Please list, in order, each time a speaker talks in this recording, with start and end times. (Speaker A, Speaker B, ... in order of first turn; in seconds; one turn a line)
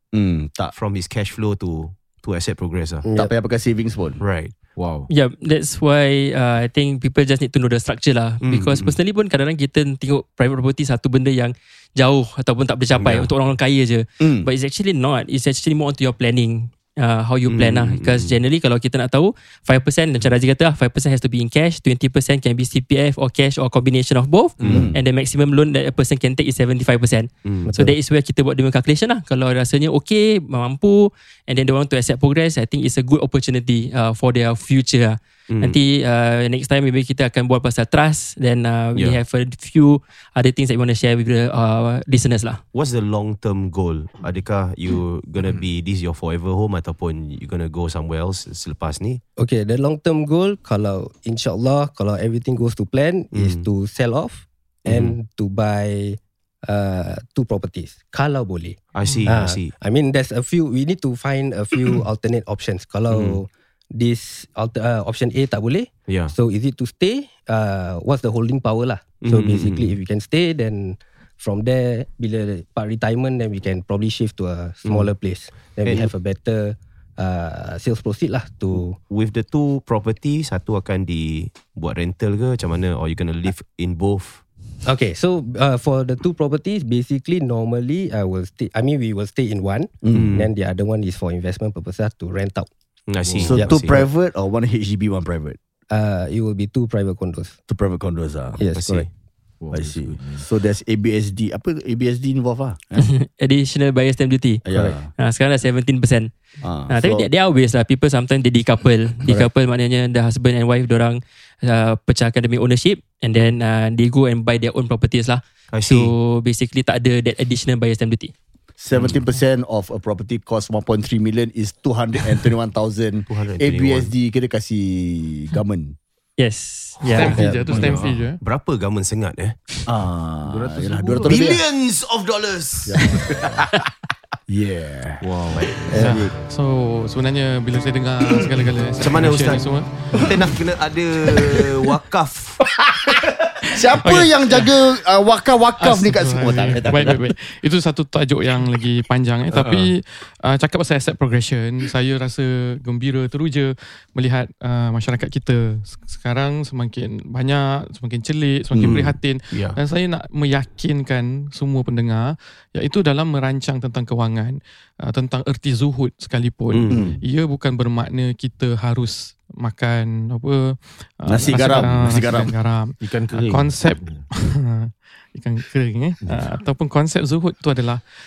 Speaker A: 0.1-0.7
Speaker B: 0.7-3.0
Speaker C: 3.0-3.3
Speaker A: 3.1-4.2
Speaker B: 4.2-4.5
Speaker D: 4.8-5.1
Speaker E: 5.1-42.6
Speaker B: 8.4-8.9
Speaker B: 13.0-13.3
Speaker A: 14.2-14.5
Speaker B: 17.4-18.4
Speaker D: 24.6-24.9
Speaker A: 24.7-25.0
Speaker C: 27.6-28.0
Speaker B: 35.5-35.8
Speaker B: 42.7-49.2
Speaker C: 49.4-79.0
Speaker B: 53.3-53.6
Speaker B: 54.8-55.1
Speaker B: 58.9-59.7
Speaker B: 63.1-63.4
Speaker B: 66.1-66.3
Speaker B: 69.2-70.0
Speaker B: 75.8-76.1
Speaker B: 79.1-84.4
Speaker C: 84.8-92.7
Speaker A: 90.0-90.3
Speaker B: 90.1-90.5
Speaker B: 93.1-94.0
Speaker D: 93.2-93.6
Speaker A: 93.4-95.6
Speaker C: 95.9-97.6
Speaker A: 97.7-98.6
Speaker C: 98.6-99.0
Speaker B: 98.7-99.1
Speaker D: 99.6-100.4
Speaker A: 99.7-103.0
Speaker E: 103.0-104.7
Speaker A: 104.7-105.1
Speaker E: 105.2-106.3
Speaker A: 106.6-107.2
Speaker E: 106.9-118.3
Speaker B: 115.7-116.1
Speaker A: 118.8-126.0
Speaker B: 118.9-119.2
Speaker B: 123.3-124.1
Speaker E: 126.4-127.5
Speaker F: 127.1-128.4
Speaker B: 127.3-129.6
Speaker A: 127.4-128.0
Speaker A: 129.9-131.6
Speaker D: 130.5-131.3
Speaker B: 131.2-133.1
Speaker A: 134.5-135.2
Speaker D: 135.2-135.9
Speaker B: 135.5-135.9
Speaker C: 135.9-136.2
Speaker A: 135.9-136.3
Speaker F: 136.0-139.9
Speaker B: 139.0-139.6
Speaker B: 140.2-142.6
Speaker A: 143.1-147.2
Speaker F: 144.0-144.6
Speaker F: 145.8-178.0
Speaker A: 158.7-159.0
Speaker B: 158.8-159.8
Speaker B: 166.7-167.1
Speaker A: 166.9-167.2
Speaker A: 171.3-172.5
Speaker D: 173.0-174.2
Speaker D: 176.2-176.5